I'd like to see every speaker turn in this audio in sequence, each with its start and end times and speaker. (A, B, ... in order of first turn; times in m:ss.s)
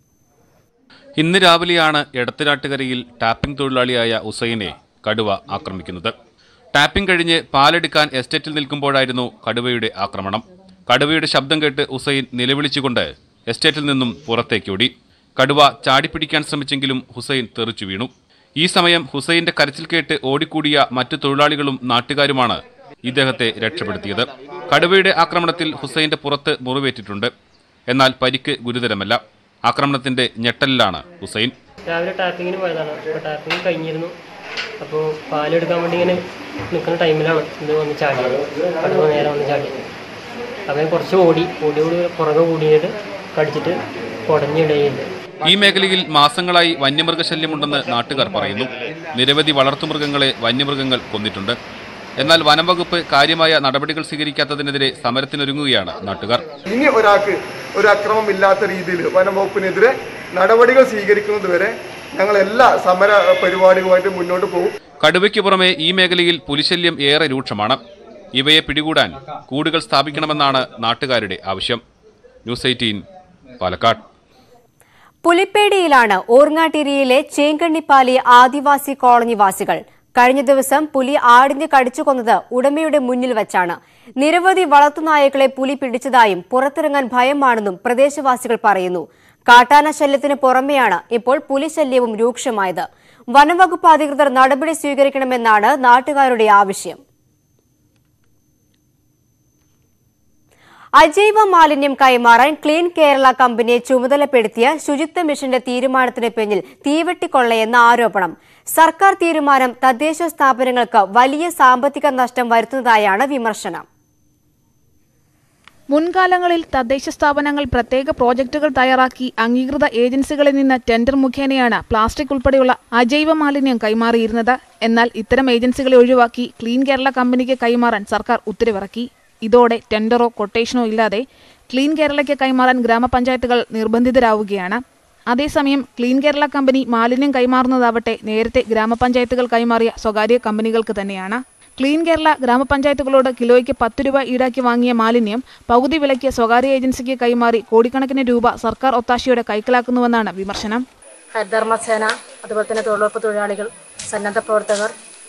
0:01.2-0:06.1 A
0:06.7-0:27.3 A
0:27.9-0:31.5 A
0:31.9-0:34.1 B
0:34.8-0:36.2 B
0:36.7-0:39.7 B
0:40.7-0:45.1 B
0:45.4-0:51.6 A
0:52.2-0:56.4 A
0:56.7-1:04.7 C
1:05.0-1:07.8 A
1:08.3-1:11.8 A
1:12.5-1:13.0 A
1:13.6-1:14.0 A
1:15.2-1:37.0 D
1:41.0-1:53.8 D
1:55.9-2:14.8 E
2:15.3-2:30.8 E
2:31.3-2:34.9 F